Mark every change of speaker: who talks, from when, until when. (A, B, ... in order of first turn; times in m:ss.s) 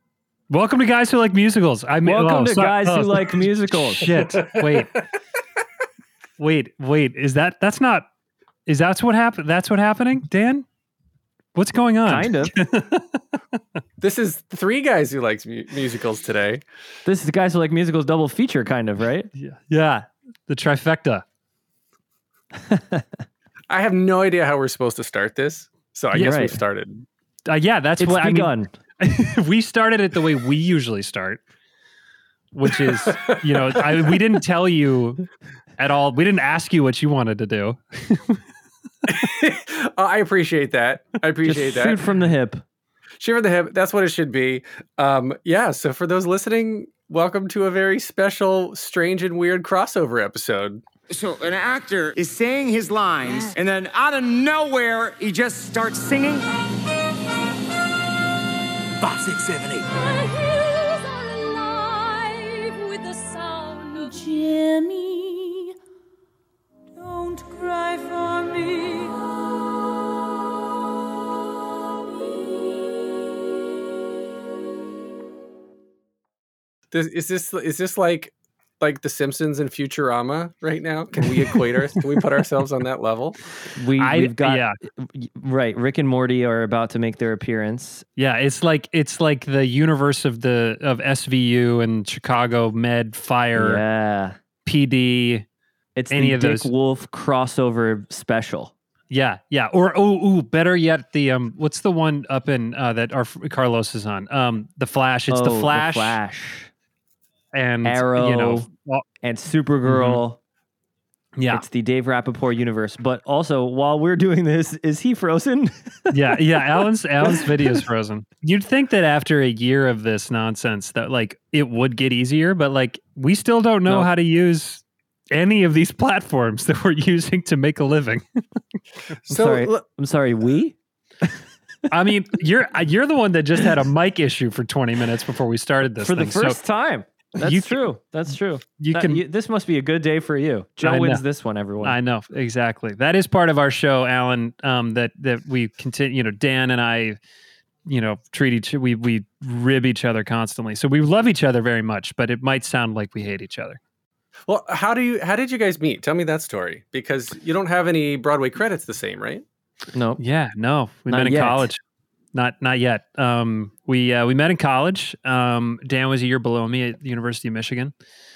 0:00.5-0:05.0 A
0:02.0-0:04.4 B
0:06.4-0:08.1 A
0:08.7-0:10.6 A
0:11.5-0:13.1 A
0:12.0-0:12.5 B
0:14.0-0:16.6 C
0:17.0-0:19.3 B
0:19.4-0:21.2 A
0:22.6-0:23.2 B
0:23.7-0:27.0 C
0:26.1-0:26.4 A
0:26.1-0:26.6 B
0:27.5-0:31.4 A
0:28.0-0:28.7 B
0:32.5-0:38.4 A
0:32.7-0:34.1 C
0:39.0-0:42.0 C
0:41.4-0:42.6 B
0:43.2-0:50.8 C
0:51.1-0:56.4 D
0:59.0-0:59.8 D
0:59.8-1:05.8 E
1:07.0-1:09.8 E
1:12.2-1:13.2 E
1:16.9-1:23.4 C
1:23.8-1:28.0 B
1:24.0-1:24.8 A
1:28.2-1:33.8 A
1:33.6-1:34.4 B
1:34.6-1:35.4 A
1:36.0-1:38.7 B
1:36.1-1:36.7 A
1:39.1-1:46.2 A
1:45.3-1:46.7 B
1:47.5-1:49.0 A
1:47.8-1:48.7 B
1:49.2-1:50.4 B
1:49.8-1:50.2 A
1:51.4-1:51.6 A
1:51.5-1:57.8 B
1:56.1-2:08.2 A
2:09.2-2:09.8 C
2:09.3-2:11.9 B
2:11.9-2:16.6 A
2:16.0-2:22.0 B
2:17.4-2:17.9 A
2:18.8-2:19.2 A
2:20.8-2:21.2 A
2:21.8-2:27.2 A
2:27.9-2:33.8 A
2:34.5-2:39.4 C
2:39.9-2:40.2 B
2:40.2-2:41.8 A
2:41.1-2:41.7 B
2:42.3-2:47.9 A